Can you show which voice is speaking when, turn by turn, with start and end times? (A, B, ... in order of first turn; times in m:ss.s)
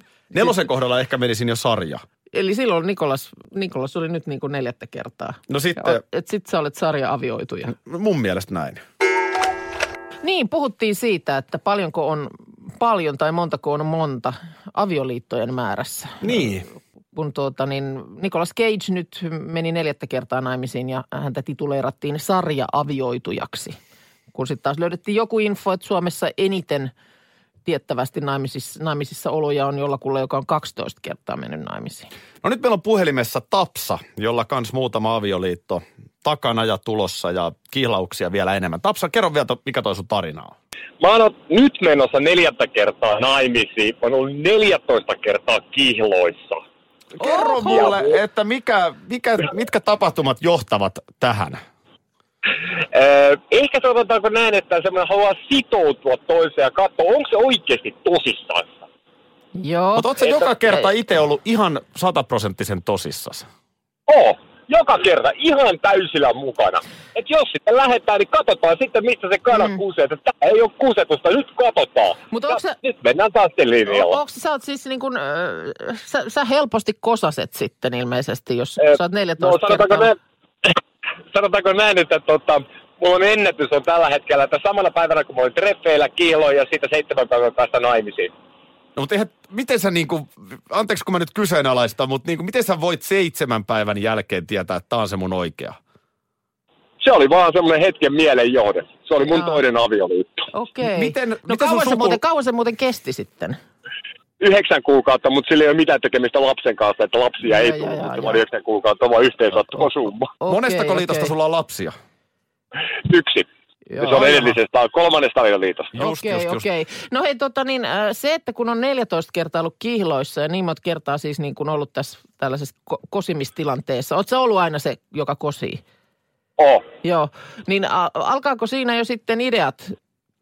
0:00.3-0:02.0 A
0:02.3-0:07.7 B
0:05.5-0:06.0 A
0:07.7-0:08.8 A
0:10.2-0:16.6 B
0:16.2-0:16.7 A
0:17.1-0:23.8 B
0:24.3-0:26.9 B
0:27.6-0:32.1 B
0:32.4-0:40.5 A
0:41.0-0:46.6 C
0:47.2-0:51.6 A
0:47.2-0:47.9 B
0:47.7-0:48.0 C
0:52.9-0:58.8 C
0:59.6-1:00.2 B
1:00.0-1:03.5 A
1:04.1-1:12.2 C
1:09.5-1:09.8 B
1:12.3-1:12.8 B
1:12.8-1:14.2 C
1:13.9-1:20.1 B
1:18.8-1:20.1 C
1:21.3-1:28.3 C
1:29.0-1:35.8 A
1:37.0-1:40.5 C
1:39.2-1:39.6 B
1:40.5-1:43.6 B
1:40.8-1:42.2 A
1:44.4-1:50.3 C
1:47.4-1:48.4 B
1:50.4-1:51.3 B
1:50.5-1:51.9 A
1:53.0-1:53.4 C
1:53.9-1:54.6 B
1:54.0-1:55.9 C
1:55.9-1:56.7 A
1:56.0-2:05.8 B
2:06.6-2:06.8 C
2:07.0-2:10.0 B